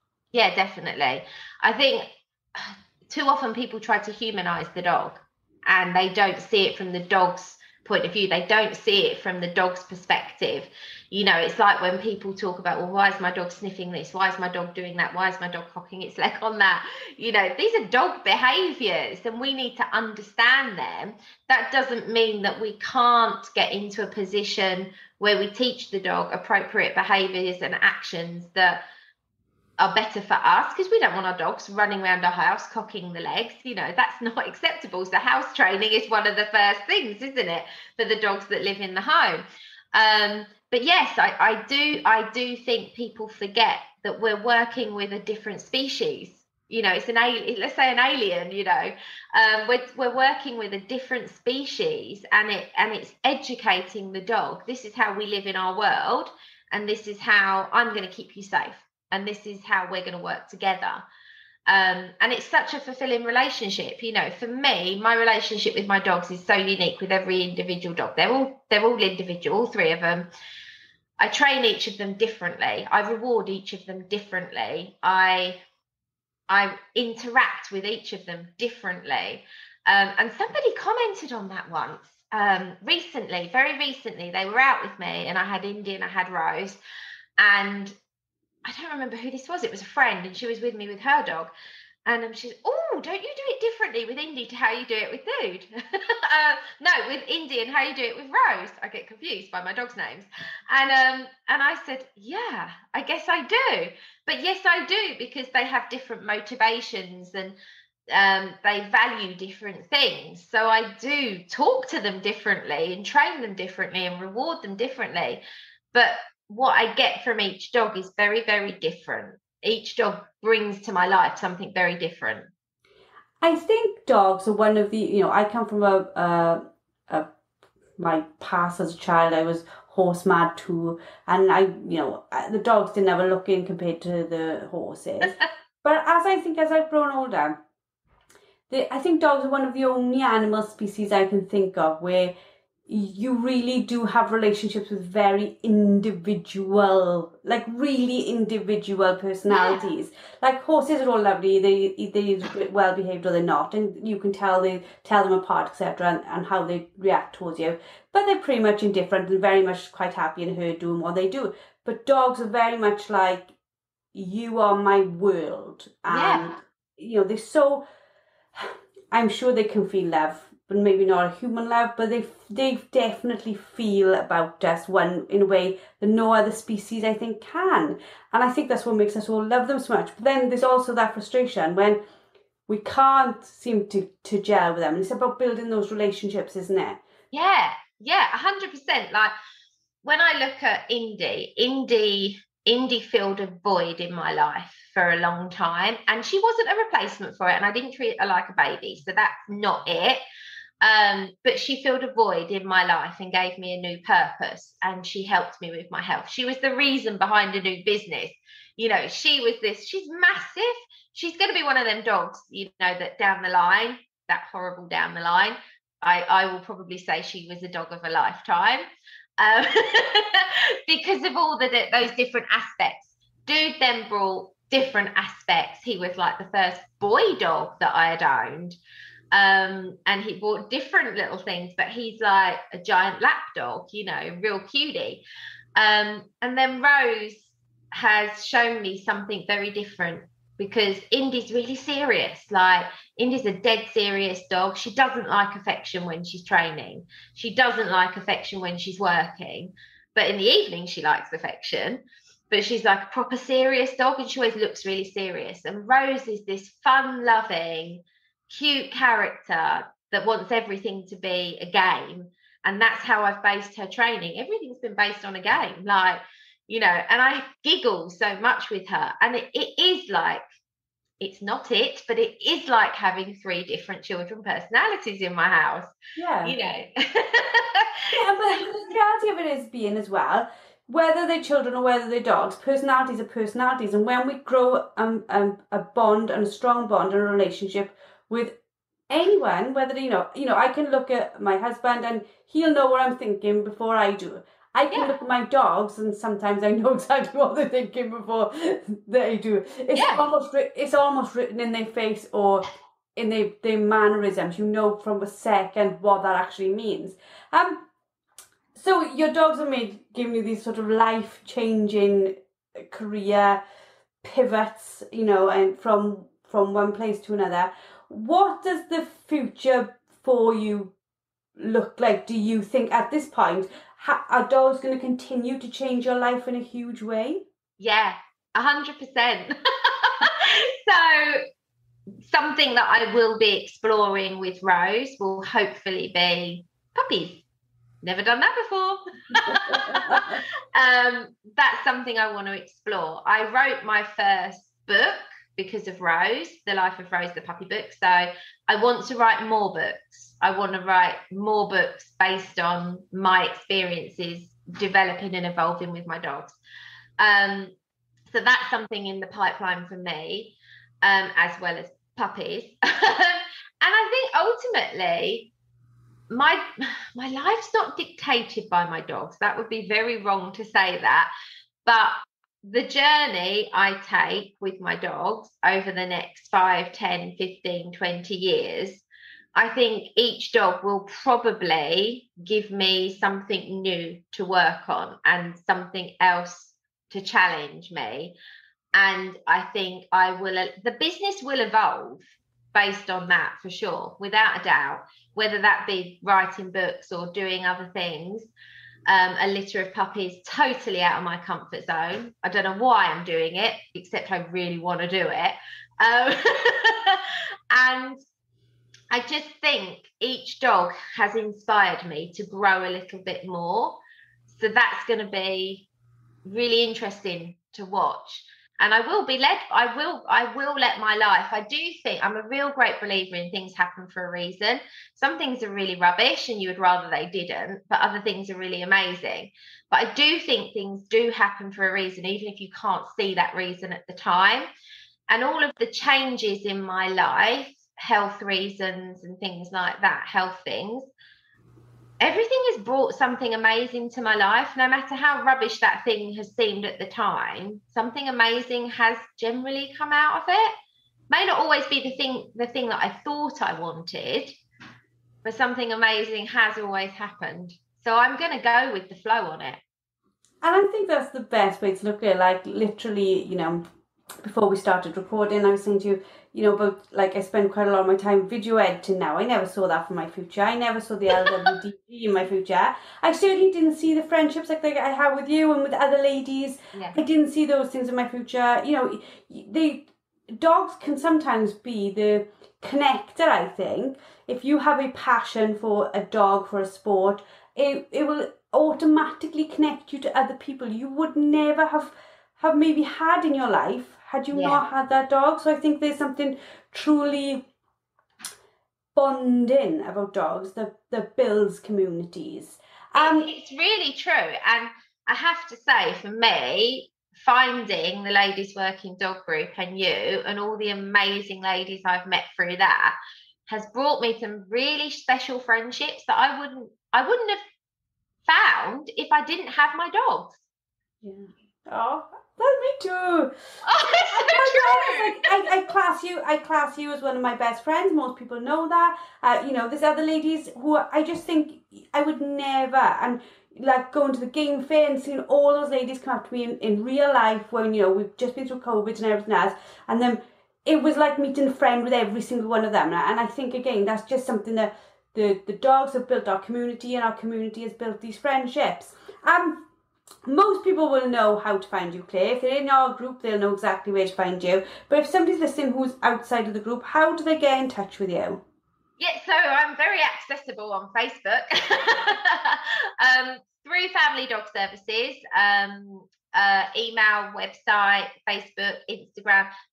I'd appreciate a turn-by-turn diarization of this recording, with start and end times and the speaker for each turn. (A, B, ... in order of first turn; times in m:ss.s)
0:00.3-0:28.8 A
0:29.8-1:01.0 A
1:01.7-1:10.3 A
1:11.2-1:15.6 A
1:16.5-1:26.8 A
1:27.4-1:27.9 A
1:28.6-1:31.5 A
1:32.1-1:47.6 A
1:48.1-1:55.4 A
1:55.9-2:02.5 A
2:03.4-2:07.3 B
2:08.0-2:17.6 B
2:18.7-2:22.3 B
2:22.9-2:43.5 B
2:29.5-2:29.8 A
2:44.1-2:47.8 B
2:46.1-2:46.5 A
2:48.6-3:02.0 B
3:02.7-3:07.0 B
3:07.3-3:09.3 A
3:10.0-3:20.2 A
3:20.8-3:38.8 A
3:39.4-3:48.8 A
3:49.3-3:55.2 A
3:55.8-4:30.4 A
4:31.2-4:38.2 A
4:36.2-4:36.6 B
4:38.1-4:48.6 B
4:49.1-5:02.6 B
5:00.0-5:00.3 A
5:03.2-5:07.9 B
5:08.8-5:13.6 B
5:14.2-5:20.9 B
5:21.6-5:27.4 B
5:27.8-5:31.4 A
5:32.2-5:37.4 A
5:38.0-5:56.6 A
5:39.3-5:40.4 B
5:57.2-5:57.7 A
5:58.3-6:05.5 A
6:06.3-6:11.3 A
6:11.9-6:19.0 A
6:19.6-6:28.3 A
6:29.0-6:38.5 A
6:39.1-6:48.2 A
6:49.1-6:55.9 A
6:56.4-7:14.7 A
7:15.3-7:21.1 A
7:22.2-7:30.7 A
7:31.3-7:34.6 A
7:35.4-7:39.8 A
7:40.6-7:43.8 B
7:44.4-8:17.7 B
8:14.5-8:14.8 A
8:19.2-8:23.5 B
8:23.2-8:33.2 A
8:33.7-8:37.6 A
8:38.5-8:40.6 A
8:41.2-8:43.5 B
8:43.8-8:45.6 A
8:44.3-9:09.8 B
9:10.4-9:18.6 B
9:19.2-9:29.7 A